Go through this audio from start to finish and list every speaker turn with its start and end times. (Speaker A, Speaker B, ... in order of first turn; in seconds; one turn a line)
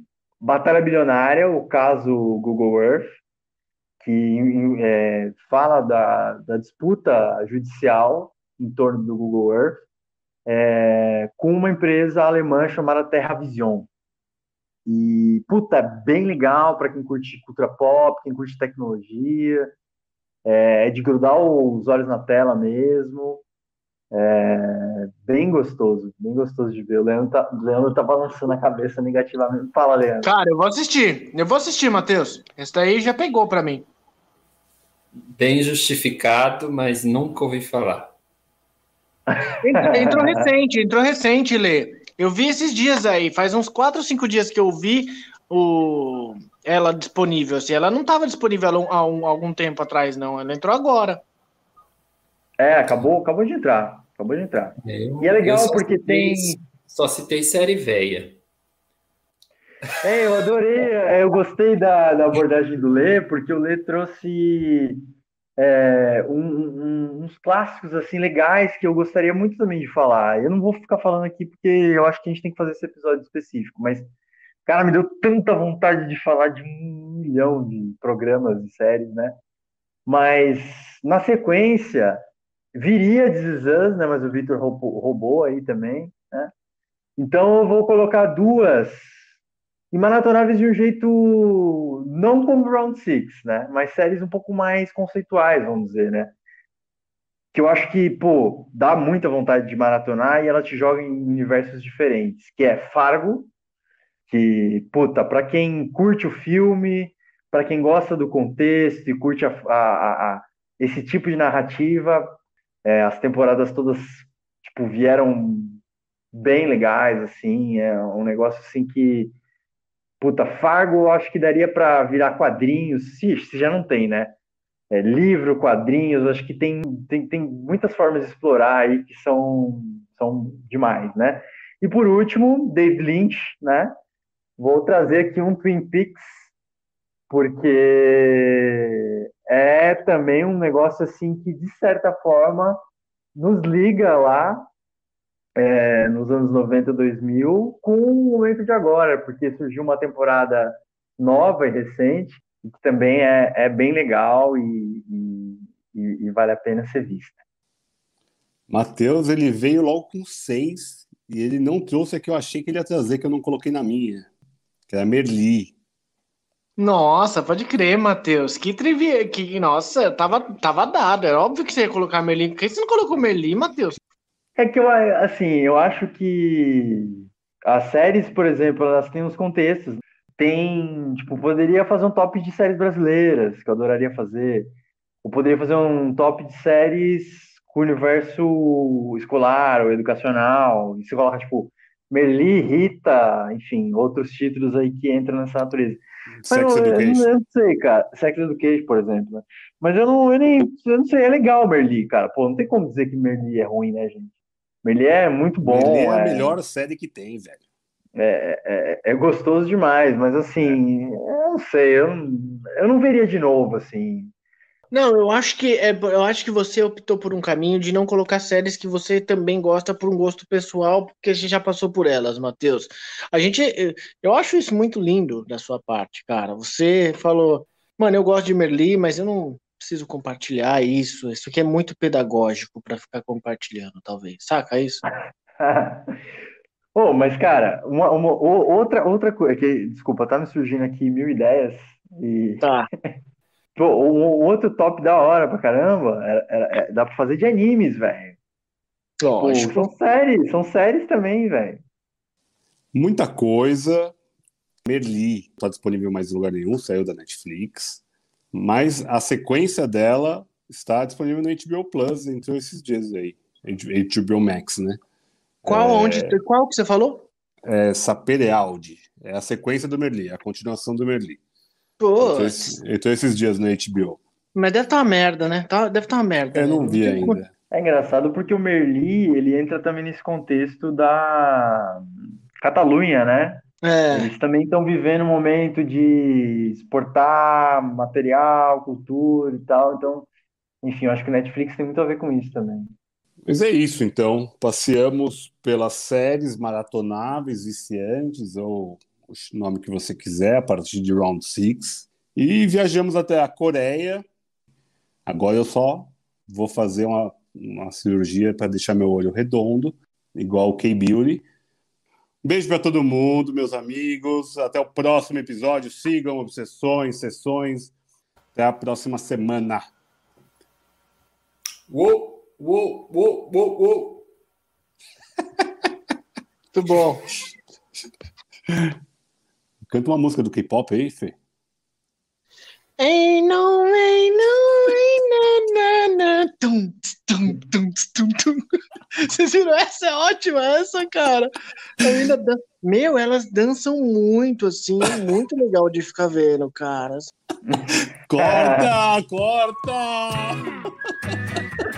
Speaker A: 0.4-3.2
Speaker A: 4.0-9.8
Speaker A: 10.5-13.9
Speaker A: 14.9-19.8
Speaker A: 20.5-23.4
Speaker A: 24.1-30.3
Speaker B: 30.2-33.9
Speaker C: 35.4-38.1
Speaker A: 39.3-40.5
Speaker B: 39.6-51.2
Speaker A: 52.6-56.6
Speaker C: 54.8-58.4
Speaker A: 60.0-65.0
Speaker A: 65.6-74.1
Speaker A: 74.7-79.4
Speaker A: 80.1-82.2
Speaker A: 82.8-86.5
Speaker A: 87.2-89.2
Speaker A: 89.9-96.4
Speaker A: 97.5-103.5
Speaker A: 104.3-115.8
Speaker A: 116.3-119.3
Speaker A: 120.2-124.4
Speaker A: 124.9-133.9
Speaker A: 134.6-136.2
Speaker A: 137.3-142.8
Speaker A: 143.4-144.7
Speaker A: 145.6-157.4
Speaker D: 158.7-164.3
Speaker D: 164.9-165.7
Speaker B: 166.8-174.0
Speaker A: 174.6-184.7
Speaker A: 185.2-206.6
Speaker D: 196.4-197.4
Speaker D: 205.6-207.6
Speaker A: 208.2-214.3
Speaker B: 214.9-235.0
Speaker A: 235.6-236.1
Speaker A: 237.0-242.7
Speaker B: 242.6-242.9
Speaker A: 243.8-248.4
Speaker B: 249.2-249.9
Speaker A: 249.4-251.8
Speaker D: 252.9-254.1
Speaker D: 254.8-258.0
Speaker D: 258.5-265.0
Speaker D: 265.6-266.4
Speaker B: 265.7-267.3
Speaker D: 267.6-271.4
Speaker B: 272.0-272.8
Speaker D: 272.2-274.2
Speaker B: 274.6-277.4
Speaker D: 276.5-277.5
Speaker A: 277.7-282.0
Speaker A: 282.6-290.3
Speaker B: 283.8-284.3
Speaker A: 290.8-292.9
Speaker D: 293.4-304.2
Speaker D: 305.3-311.4
Speaker D: 312.4-317.9
Speaker D: 318.6-319.9
Speaker D: 321.9-324.2
Speaker B: 326.7-327.3
Speaker D: 328.7-328.9
Speaker D: 329.9-331.4
Speaker B: 333.0-338.6
Speaker B: 339.2-347.3
Speaker A: 347.7-348.9
Speaker D: 348.3-350.7